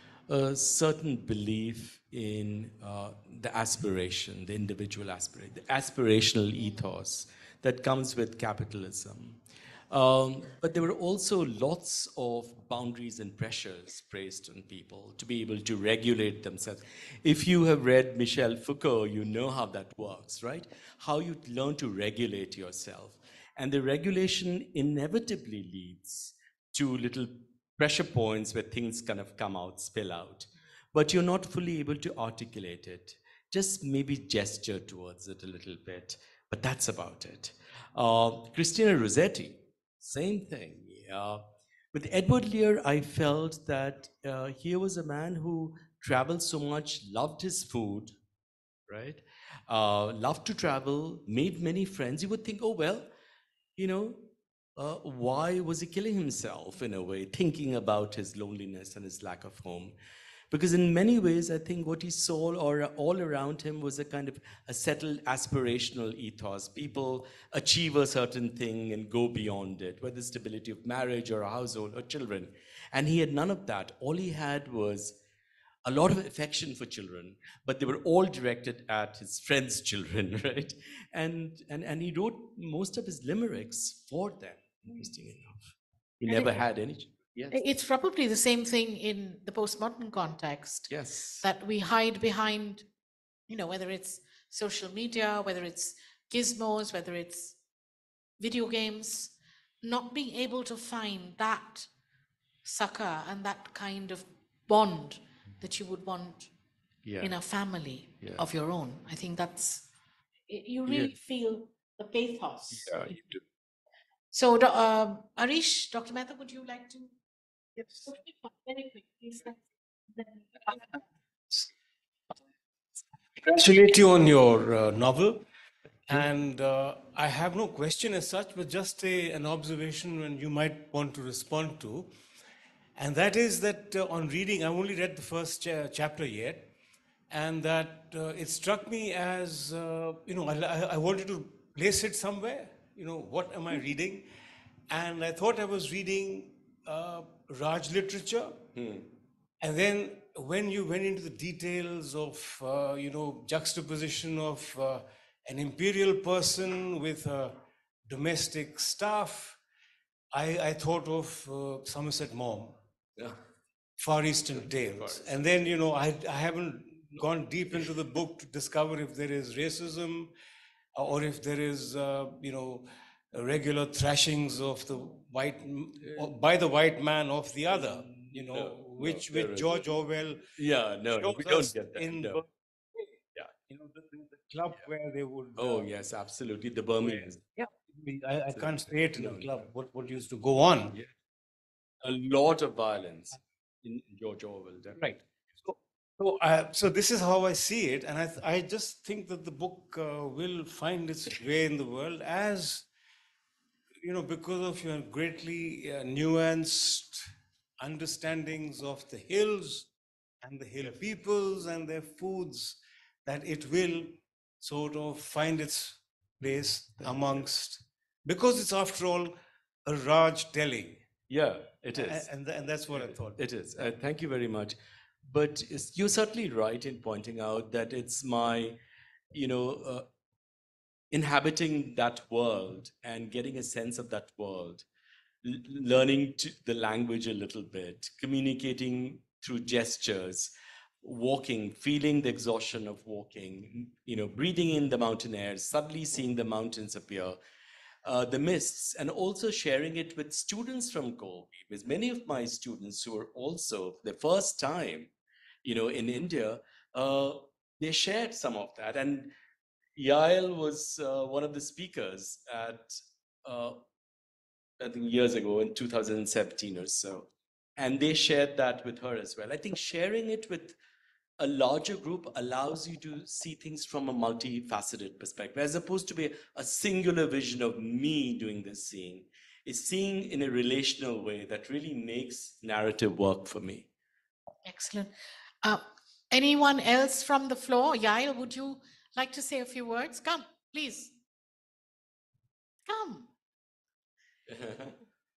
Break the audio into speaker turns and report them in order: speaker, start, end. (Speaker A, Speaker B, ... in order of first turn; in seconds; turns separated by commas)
Speaker A: 0.3-48.1, Speaker A: 48.9-53.1, Speaker A: 53.8-60.0, Speaker A: 60.5-75.2, Speaker A: 75.8-87.6, Speaker B: 87.5-90.9, Speaker A: 90.9-91.5, Speaker B: 91.4-92.8, Speaker B: 93.5-97.6, Speaker B: 98.4-101.9, Speaker B: 102.6-106.5, Speaker A: 107.0-107.3, Speaker B: 107.2-109.9, Speaker A: 108.2-108.5, Speaker B: 110.5-113.0, Speaker A: 110.9-111.1, Speaker A: 112.7-113.4, Speaker B: 114.3-117.1, Speaker B: 117.9-119.6, Speaker B: 120.2-120.8, Speaker C: 123.4-125.4, Speaker C: 126.1-132.1, Speaker C: 132.9-136.7, Speaker C: 137.3-144.3, Speaker C: 144.9-148.6, Speaker A: 148.7-149.1, Speaker C: 149.6-159.6, Speaker C: 160.3-162.8, Speaker C: 164.0-170.3, Speaker A: 164.6-165.7, Speaker C: 170.9-180.5, Speaker A: 178.3-179.8, Speaker A: 180.6-182.4, Speaker C: 181.1-183.0, Speaker C: 183.7-185.9, Speaker A: 185.6-187.4, Speaker C: 187.0-191.0, Speaker A: 188.5-189.7, Speaker A: 192.0-195.1, Speaker C: 195.1-202.9, Speaker C: 204.0-207.2, Speaker C: 207.8-209.9, Speaker C: 210.4-221.1, Speaker A: 217.0-217.4, Speaker A: 221.3-222.3, Speaker C: 221.9-223.4, Speaker A: 222.9-228.8, Speaker A: 229.3-230.1, Speaker A: 231.1-234.8, Speaker A: 235.4-247.4, Speaker A: 248.0-255.1, Speaker A: 255.6-259.3, Speaker A: 259.9-263.8, Speaker A: 264.8-270.8, Speaker A: 271.4-283.9, Speaker B: 284.6-291.1, Speaker B: 292.9-293.3, Speaker A: 294.5-294.9